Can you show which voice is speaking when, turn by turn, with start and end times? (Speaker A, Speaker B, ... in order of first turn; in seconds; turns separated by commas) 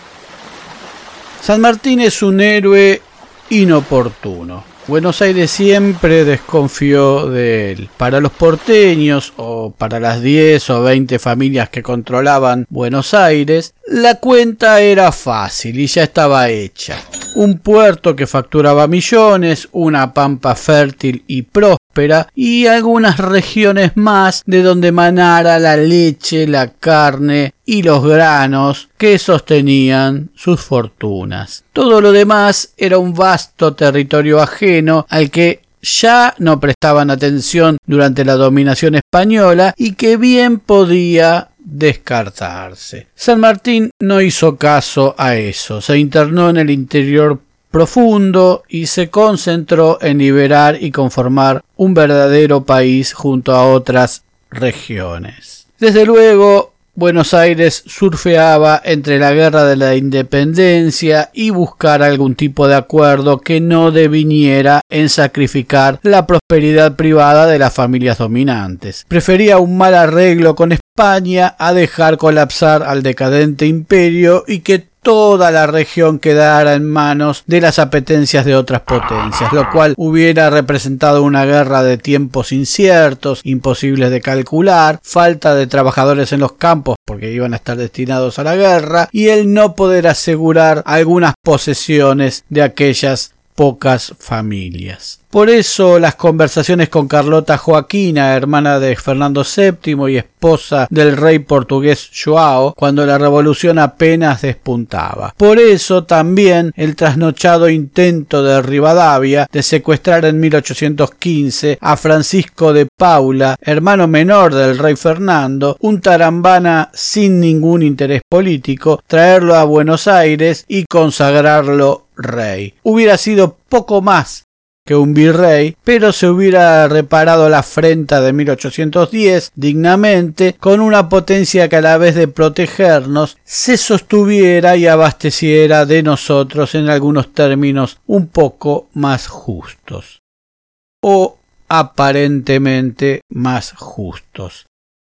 Speaker A: 1.4-140.2, Speaker A: 141.0-144.6